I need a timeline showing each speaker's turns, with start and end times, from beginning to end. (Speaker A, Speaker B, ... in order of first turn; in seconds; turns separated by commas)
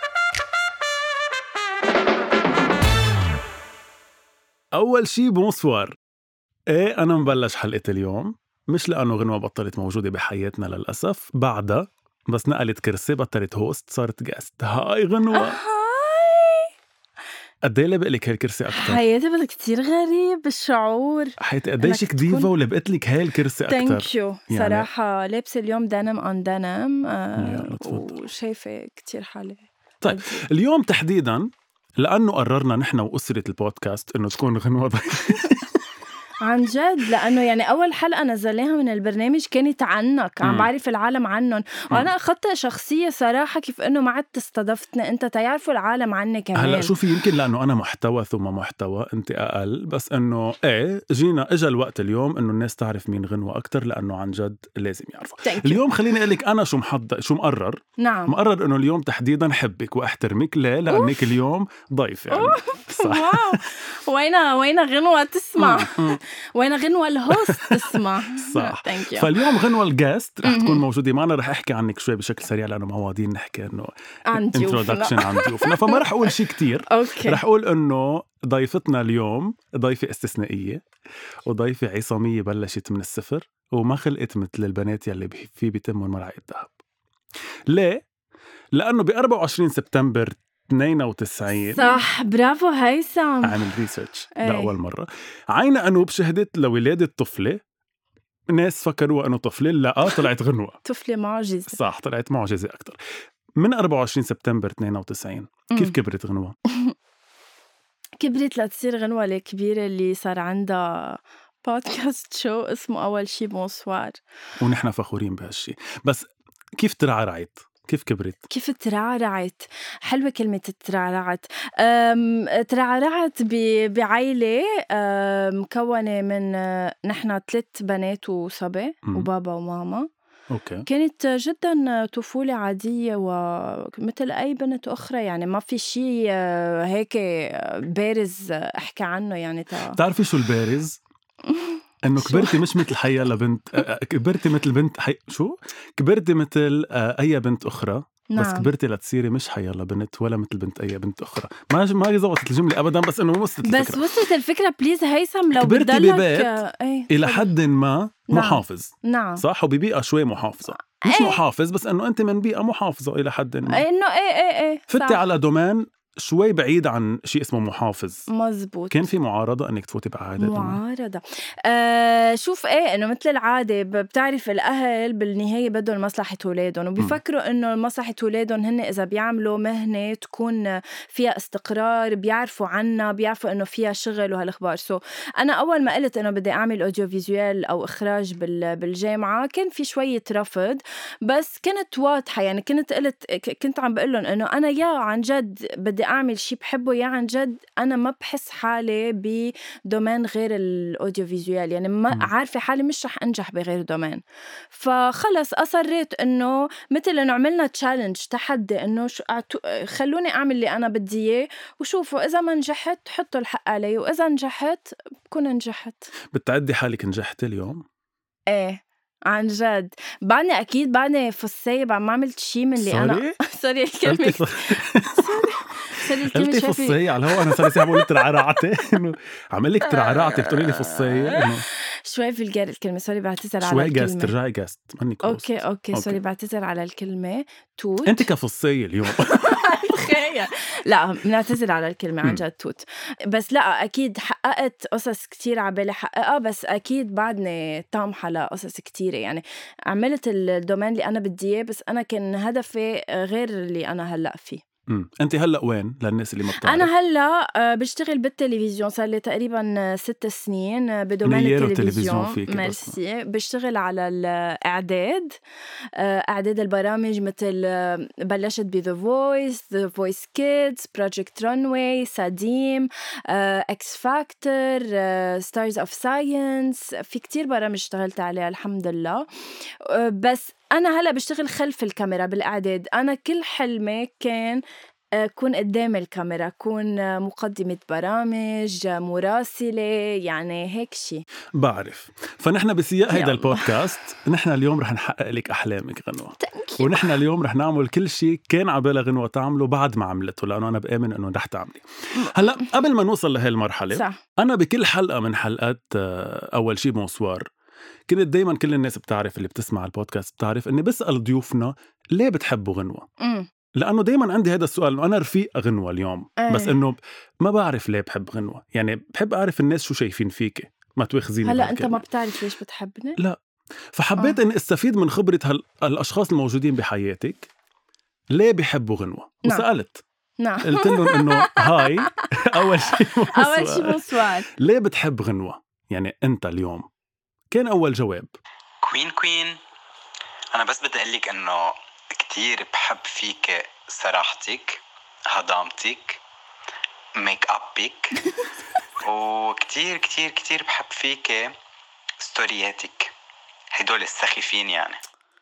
Speaker A: 4.7-6.0, Speaker A: 6.7-15.6, Speaker B: 15.3-16.7, Speaker A: 17.6-19.0, Speaker B: 18.7-22.5, Speaker A: 21.4-24.9, Speaker B: 23.7-30.4, Speaker A: 27.4-28.2, Speaker A: 30.0-35.8, Speaker B: 35.3-35.5, Speaker B: 36.4-46.9, Speaker A: 40.4-40.7, Speaker A: 46.6-63.6, Speaker B: 55.4-55.9, Speaker B: 58.0-58.3, Speaker B: 60.9-61.2, Speaker B: 62.3-69.3, Speaker A: 65.6-66.2, Speaker A: 67.4-80.8, Speaker B: 70.4-70.8, Speaker B: 74.3-76.3, Speaker B: 76.9-77.4, Speaker A: 81.5-86.7, Speaker A: 87.7-88.0, Speaker A: 88.7-92.0, Speaker B: 91.7-93.6, Speaker A: 93.4-97.6, Speaker B: 94.4-94.7, Speaker A: 98.5-100.8, Speaker B: 100.9-101.8, Speaker A: 101.7-103.0, Speaker A: 103.6-106.6, Speaker B: 108.2-114.2, Speaker A: 114.6-118.4, Speaker B: 118.5-130.1, Speaker A: 130.5-130.9, Speaker B: 130.9-140.0, Speaker A: 139.9-141.0, Speaker B: 141.5-142.6, Speaker A: 142.0-154.2, Speaker B: 148.3-148.7, Speaker B: 153.6-157.5, Speaker A: 155.6-156.6, Speaker A: 157.1-163.8, Speaker B: 158.3-159.4, Speaker B: 160.7-161.4, Speaker B: 163.7-165.2, Speaker A: 164.9-168.3, Speaker B: 168.3-169.1, Speaker A: 168.9-170.8, Speaker B: 170.4-204.2, Speaker B: 204.7-216.1, Speaker A: 216.3-217.8, Speaker B: 218.5-228.4, Speaker A: 222.8-223.4, Speaker A: 224.0-225.4, Speaker A: 226.2-231.7, Speaker B: 229.9-231.5, Speaker B: 232.1-234.3, Speaker A: 233.6-236.2, Speaker B: 235.2-238.3, Speaker A: 238.1-239.6, Speaker B: 239.1-254.6, Speaker A: 254.9-256.9, Speaker B: 256.6-265.4, Speaker A: 261.2-263.0, Speaker B: 266.0-279.3, Speaker B: 279.8-284.6, Speaker B: 285.2-291.2, Speaker A: 291.6-307.5, Speaker B: 293.1-293.7, Speaker B: 296.4-297.1, Speaker B: 303.9-304.2, Speaker A: 308.1-313.1, Speaker B: 313.2-313.5, Speaker A: 313.8-322.1, Speaker B: 316.4-316.8, Speaker B: 321.4-323.2, Speaker A: 323.9-327.5, Speaker A: 328.3-330.0, Speaker B: 330.4-334.5, Speaker A: 330.6-336.9, Speaker A: 337.5-338.3, Speaker C: 338.8-339.6, Speaker C: 340.5-346.2, Speaker C: 347.2-348.2, Speaker C: 349.0-351.6, Speaker C: 352.2-353.1, Speaker C: 353.7-355.0